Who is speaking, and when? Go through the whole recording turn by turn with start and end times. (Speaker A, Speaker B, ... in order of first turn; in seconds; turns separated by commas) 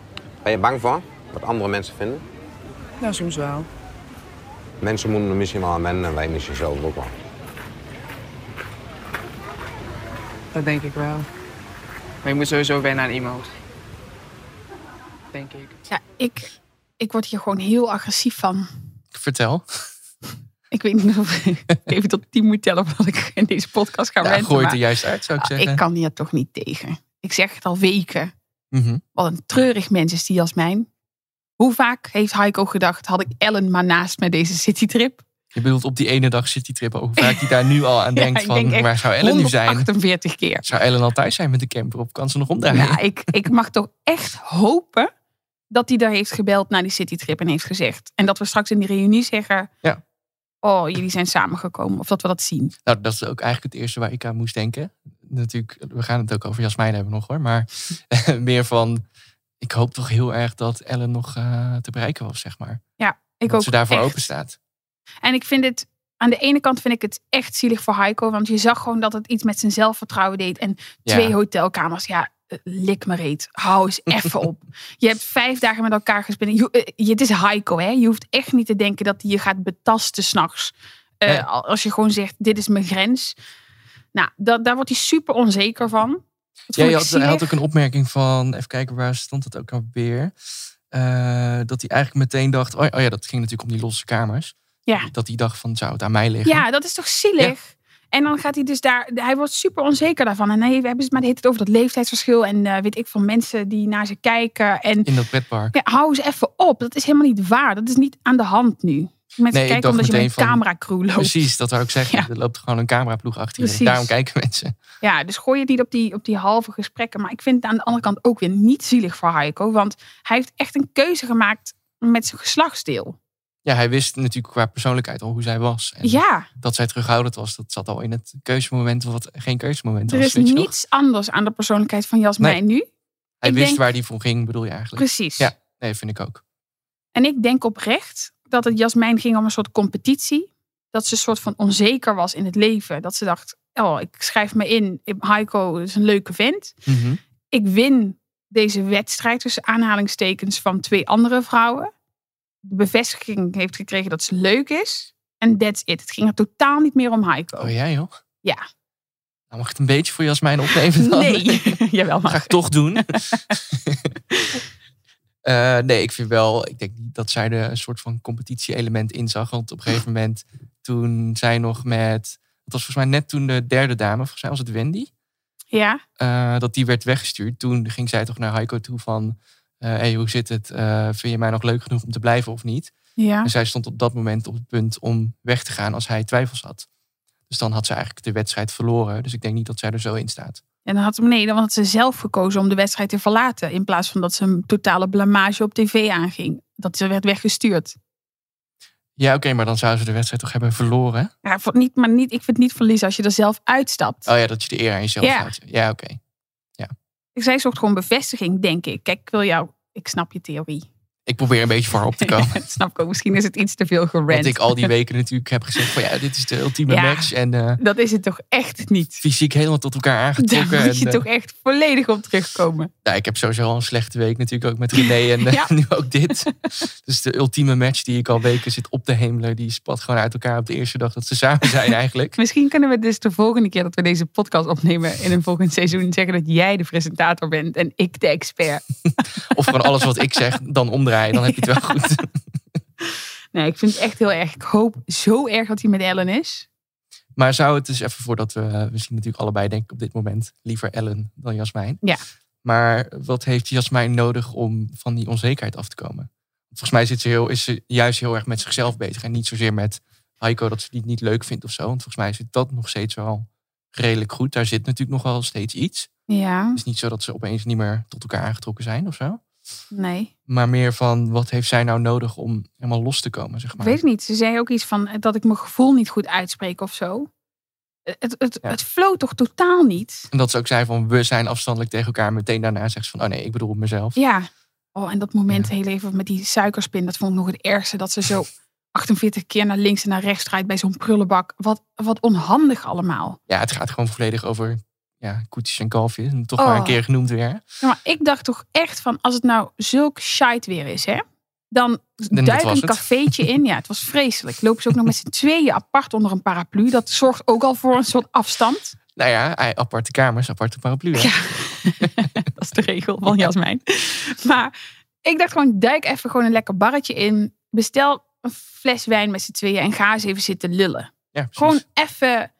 Speaker A: 0.4-2.2, Speaker B: 3.0-3.7, Speaker A: 4.8-7.1, Speaker B: 10.5-11.3, Speaker B: 12.2-13.6, Speaker B: 15.3-15.7, Speaker C: 15.9-18.7, Speaker D: 19.1-19.9, Speaker C: 20.7-24.8, Speaker D: 24.2-25.8, Speaker C: 25.4-28.3, Speaker D: 28.7-29.0, Speaker C: 29.1-30.9, Speaker C: 31.6-35.2, Speaker D: 35.5-39.9, Speaker C: 38.1-40.6, Speaker D: 40.6-43.0, Speaker C: 42.7-45.1, Speaker C: 45.7-49.7, Speaker C: 50.6-52.7, Speaker D: 52.8-59.0, Speaker D: 59.6-62.8, Speaker C: 63.0-64.3, Speaker D: 63.5-64.6, Speaker C: 65.2-83.3, Speaker D: 71.0-71.3, Speaker C: 84.1-87.5, Speaker D: 86.7-90.3, Speaker D: 90.9-94.5, Speaker D: 95.1-96.7, Speaker C: 96.4-105.1, Speaker D: 105.0-105.8, Speaker C: 105.7-111.4, Speaker D: 109.5-110.6, Speaker D: 111.2-114.8, Speaker C: 113.6-114.1, Speaker C: 115.0-123.2, Speaker D: 123.6-130.7, Speaker C: 126.0-126.5, Speaker C: 130.1-132.9, Speaker D: 133.4-136.4, Speaker C: 133.4-133.8, Speaker C: 135.0-135.5, Speaker C: 137.1-146.8, Speaker D: 146.8-147.2, Speaker C: 147.5-151.9, Speaker C: 152.6-157.7, Speaker D: 157.6-158.1, Speaker D: 159.5-164.1, Speaker C: 160.9-163.6, Speaker C: 164.3-164.6, Speaker D: 165.4-175.1, Speaker C: 175.7-176.0, Speaker D: 176.2-182.9, Speaker C: 183.2-183.5, Speaker D: 183.4-186.8, Speaker D: 187.5-190.6, Speaker C: 190.8-198.0, Speaker D: 199.2-201.3, Speaker C: 201.4-204.3, Speaker D: 204.2-206.2, Speaker C: 205.2-205.5, Speaker C: 207.3-210.9, Speaker D: 211.3-212.6, Speaker C: 212.2-214.9, Speaker D: 214.3-217.8, Speaker C: 216.9-219.2, Speaker D: 219.2-221.2, Speaker C: 220.4-222.9, Speaker D: 223.0-232.4, Speaker C: 225.0-225.7, Speaker C: 232.4-238.8, Speaker D: 239.5-242.3, Speaker C: 241.3-241.7, Speaker C: 243.5-246.7, Speaker D: 247.3-252.0, Speaker D: 252.6-266.1, Speaker C: 266.3-266.8, Speaker D: 266.7-269.4, Speaker C: 269.9-270.3, Speaker D: 270.5-274.0, Speaker C: 273.8-277.3, Speaker C: 278.1-280.3, Speaker D: 280.3-284.2, Speaker C: 284.1-293.4, Speaker D: 293.5-297.6, Speaker C: 296.6-297.0, Speaker C: 297.8-308.9, Speaker D: 302.3-303.4, Speaker D: 309.1-312.1, Speaker C: 311.1-322.5, Speaker D: 321.3-321.8